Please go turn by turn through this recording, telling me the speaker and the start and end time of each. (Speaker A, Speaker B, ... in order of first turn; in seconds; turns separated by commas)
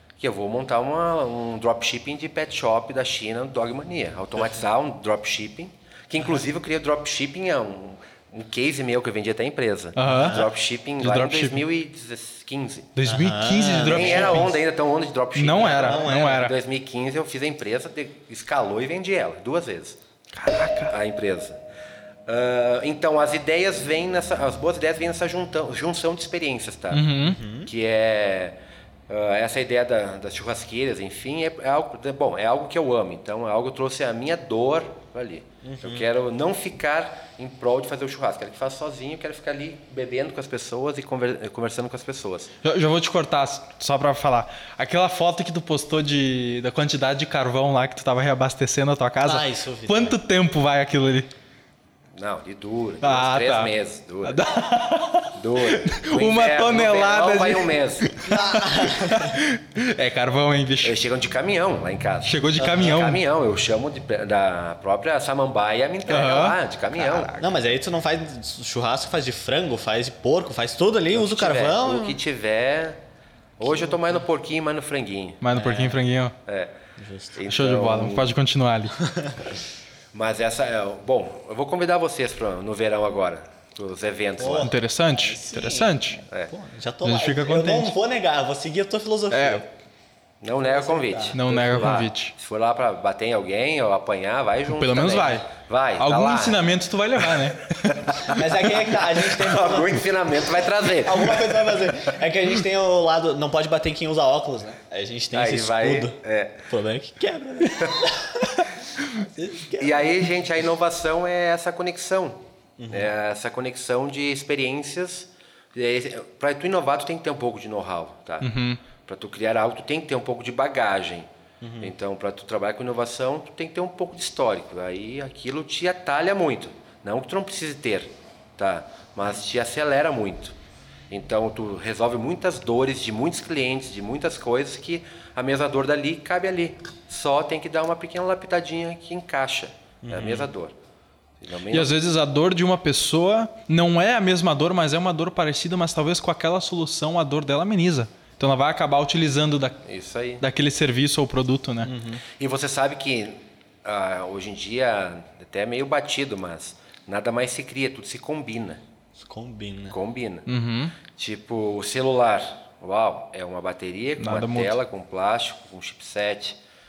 Speaker A: 0.2-12.9, Speaker B: 9.9-10.5, Speaker C: 10.1-10.5, Speaker B: 11.0-11.6, Speaker B: 12.9-14.6, Speaker C: 13.1-14.5, Speaker A: 13.8-20.0, Speaker B: 15.3-16.5, Speaker C: 15.7-16.5, Speaker B: 20.3-20.9, Speaker A: 20.8-21.6, Speaker A: 22.3-27.1, Speaker B: 26.9-27.4, Speaker C: 27.2-27.7, Speaker A: 27.6-28.6, Speaker A: 29.1-42.5, Speaker C: 35.6-36.1, Speaker B: 42.6-51.3, Speaker C: 49.2-50.2, Speaker A: 52.1-54.4, Speaker B: 53.0-61.0, Speaker A: 55.3-58.1, Speaker C: 58.2-59.4, Speaker A: 60.8-67.4, Speaker B: 62.2-63.2, Speaker B: 66.1-67.4, Speaker C: 67.3-72.2, Speaker A: 71.1-73.0, Speaker A: 73.6-75.4, Speaker C: 73.7-74.1, Speaker B: 75.4-76.3, Speaker C: 75.5-76.0, Speaker A: 76.5-76.7, Speaker C: 77.0-77.4, Speaker A: 77.3-78.3, Speaker B: 77.5-79.0, Speaker C: 79.0-79.5, Speaker A: 80.1-84.7, Speaker C: 84.4-89.7, Speaker B: 84.6-86.2, Speaker B: 87.0-87.9, Speaker B: 89.3-89.6, Speaker A: 90.4-96.7, Speaker C: 90.5-92.0, Speaker B: 91.3-92.3, Speaker B: 94.7-98.3, Speaker A: 97.8-102.0, Speaker C: 98.2-100.1, Speaker C: 100.8-108.6, Speaker A: 105.3-106.7, Speaker C: 109.2-110.1, Speaker A: 109.8-112.4, Speaker C: 112.8-113.1, Speaker A: 112.9-121.3, Speaker B: 118.4-118.8, Speaker C: 121.6-121.9, Speaker A: 121.8-130.5, Speaker A: 131.1-140.7, Speaker C: 140.0-140.5, Speaker A: 141.4-141.9, Speaker B: 141.7-149.8, Speaker A: 149.8-150.4, Speaker B: 150.4-151.9, Speaker C: 151.8-152.2, Speaker A: 152.4-158.8, Speaker C: 159.2-159.9, Speaker A: 159.9-160.5, Speaker B: 160.5-161.0, Speaker A: 161.1-166.6, Speaker B: 164.2-164.8